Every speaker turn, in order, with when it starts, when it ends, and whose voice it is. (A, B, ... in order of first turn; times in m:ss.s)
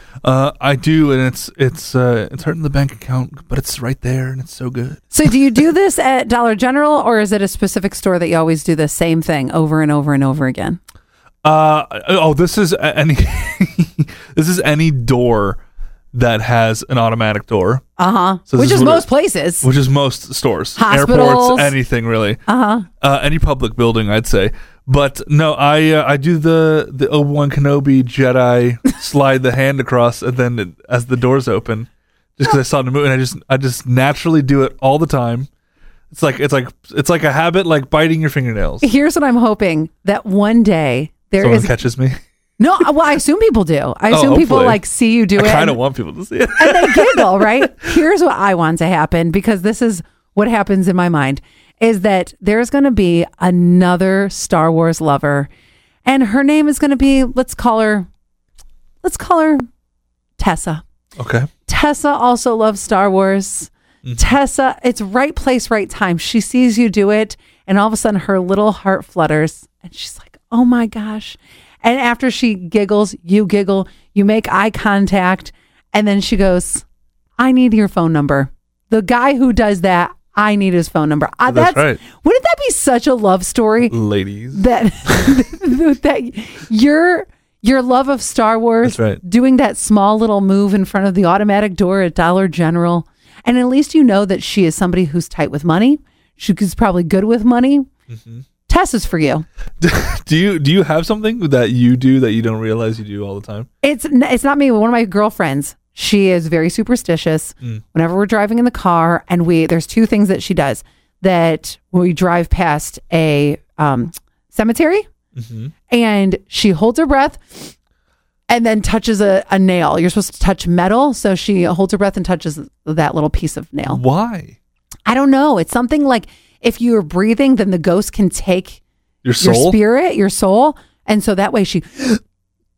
0:00.2-0:05.4 A
0:05.1-0:10.8 B
0:11.4-0:15.6 A
0:16.1-0:17.8 A
0:18.0-0:19.7 B
0:18.5-0:19.1 A
0:19.6-0:22.4 A
0:20.8-0:21.8 B
0:22.5-0:22.9 B
0:23.0-0:35.5 A
0:36.1-0:38.9 A
0:38.8-0:41.7 B
0:41.4-0:42.1 A
0:42.6-0:45.8 B
0:44.1-0:44.8 A
0:45.4-0:47.8 A
0:46.6-0:55.5 B
0:56.0-0:58.1 B
0:59.0-0:59.6 B
1:00.4-1:00.8 B
1:01.2-1:01.5 A
1:01.7-1:16.8 B
1:17.4-1:24.0 B
1:21.5-1:22.0 A
1:23.9-1:24.6 A
1:24.5-1:37.9 B
1:28.8-1:29.2 A
1:38.1-1:38.4 A
1:38.7-1:39.4 B
1:39.8-1:43.7 A
1:43.8-1:55.1 B
1:55.4-1:55.7 A
1:55.9-1:57.7 B
1:58.5-2:04.0 B
2:03.9-2:04.6 A
2:05.1-2:08.8 B
2:09.2-2:09.8 A
2:09.4-2:12.2 B